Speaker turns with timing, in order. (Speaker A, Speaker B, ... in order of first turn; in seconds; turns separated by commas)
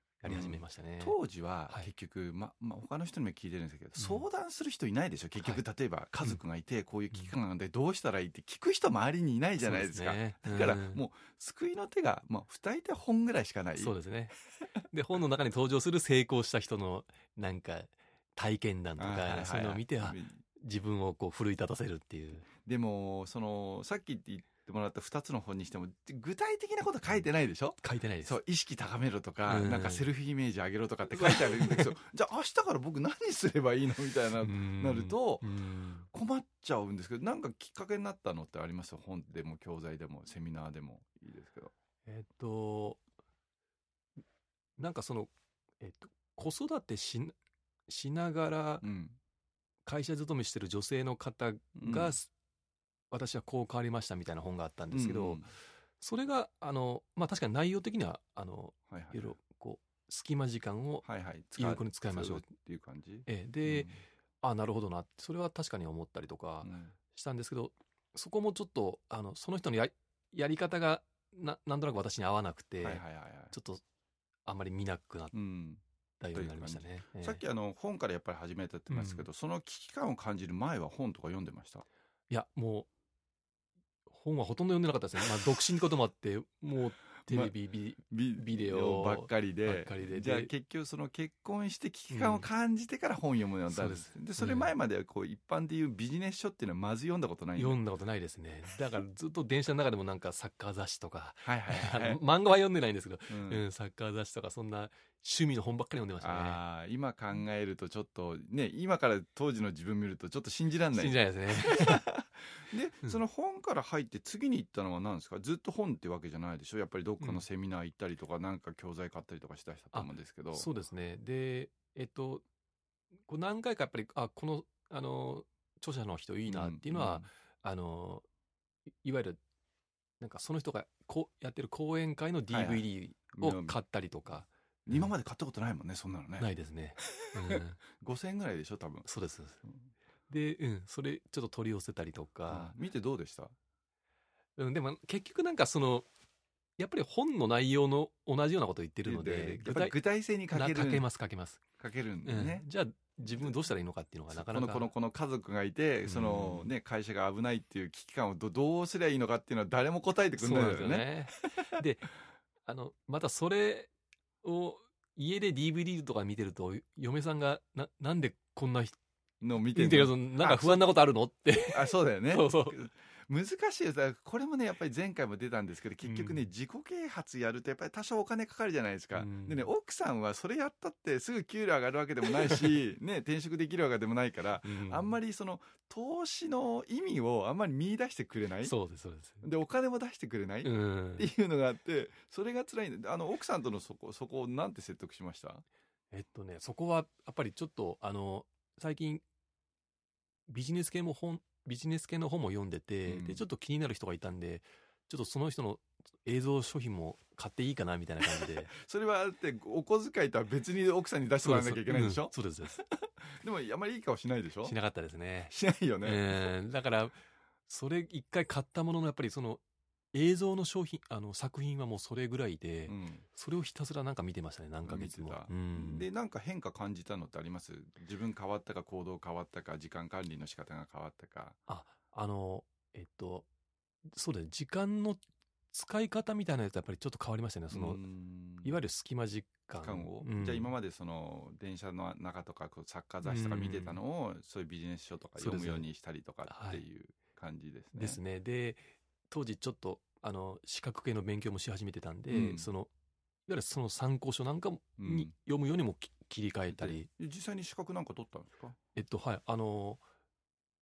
Speaker A: 0.2-1.2, Speaker B: 0.2-13.9, Speaker A: 4.0-4.2, Speaker A: 5.4-5.6, Speaker A: 9.6-11.0, Speaker A: 13.8-22.5, Speaker B: 19.0-20.4, Speaker B: 22.6-35.5, Speaker A: 27.8-28.4, Speaker A: 29.5-30.1, Speaker A: 31.1-31.9, Speaker A: 34.4-36.1, Speaker B: 36.1-41.7, Speaker A: 42.0-43.0, Speaker A: 44.8-47.3, Speaker A: 47.9-48.9, Speaker B: 48.8-49.2, Speaker A: 49.8-52.3, Speaker B: 51.8-52.2, Speaker A: 53.1-55.5, Speaker B: 54.9-55.5, Speaker A: 56.0-62.5, Speaker B: 58.9-59.3, Speaker B: 61.0-64.0, Speaker A: 63.2-63.9, Speaker A: 64.4-73.8, Speaker B: 66.6-66.9, Speaker B: 72.8-73.5, Speaker A: 74.5-75.3, Speaker B: 75.3-75.8, Speaker A: 76.2-77.4, Speaker B: 76.3-81.8, Speaker A: 78.9-79.3, Speaker A: 82.3-82.9, Speaker A: 84.1-90.5, Speaker B: 87.2-87.5, Speaker B: 88.1-97.8, Speaker A: 92.1-92.5, Speaker A: 93.7-94.7, Speaker A: 97.5-106.6, Speaker B: 101.4-102.2, Speaker B: 103.3-103.6, Speaker B: 106.2-120.7, Speaker A: 110.9-112.0, Speaker A: 117.2-117.4, Speaker A: 119.9-122.4, Speaker A: 123.3-128.2, Speaker B: 126.5-127.3, Speaker A: 129.0-129.4, Speaker A: 130.2-135.1, Speaker B: 132.5-133.8, Speaker B: 134.9-136.5, Speaker A: 136.4-137.8, Speaker B: 137.0-137.3, Speaker B: 138.0-139.1, Speaker A: 139.0-139.6, Speaker A: 140.3-142.7, Speaker B: 142.5-143.5, Speaker A: 144.6-146.1, Speaker A: 146.8-149.9, Speaker B: 149.0-151.1, Speaker A: 150.5-151.6, Speaker B: 151.8-152.7, Speaker A: 152.2-154.9, Speaker B: 154.3-161.6, Speaker A: 156.0-156.7, Speaker A: 160.4-162.1, Speaker A: 162.7-163.9, Speaker A: 164.4-169.0, Speaker B: 169.4-170.9, Speaker A: 169.7-172.8, Speaker B: 171.7-188.8, Speaker A: 176.0-176.5, Speaker A: 179.1-179.7, Speaker A: 182.2-182.7, Speaker A: 184.6-185.2, Speaker A: 188.6-189.4, Speaker B: 189.4-195.6, Speaker A: 190.6-191.3, Speaker A: 196.1-199.2, Speaker A: 200.5-208.7, Speaker B: 203.1-203.4, Speaker B: 208.2-214.8, Speaker A: 211.4-212.8, Speaker A: 214.6-217.2, Speaker B: 215.5-216.5, Speaker A: 217.7-219.6, Speaker A: 220.1-226.1, Speaker B: 222.9-223.2, Speaker B: 224.8-231.6, Speaker A: 231.7-233.5, Speaker A: 234.1-238.0, Speaker B: 237.7-238.8, Speaker A: 238.6-240.7, Speaker B: 239.8-248.2, Speaker A: 243.2-244.0, Speaker A: 245.4-245.9, Speaker A: 246.5-246.8, Speaker A: 247.9-252.9, Speaker B: 252.3-252.7, Speaker A: 253.5-257.1, Speaker B: 255.0-255.3, Speaker B: 256.7-258.8, Speaker A: 258.9-260.0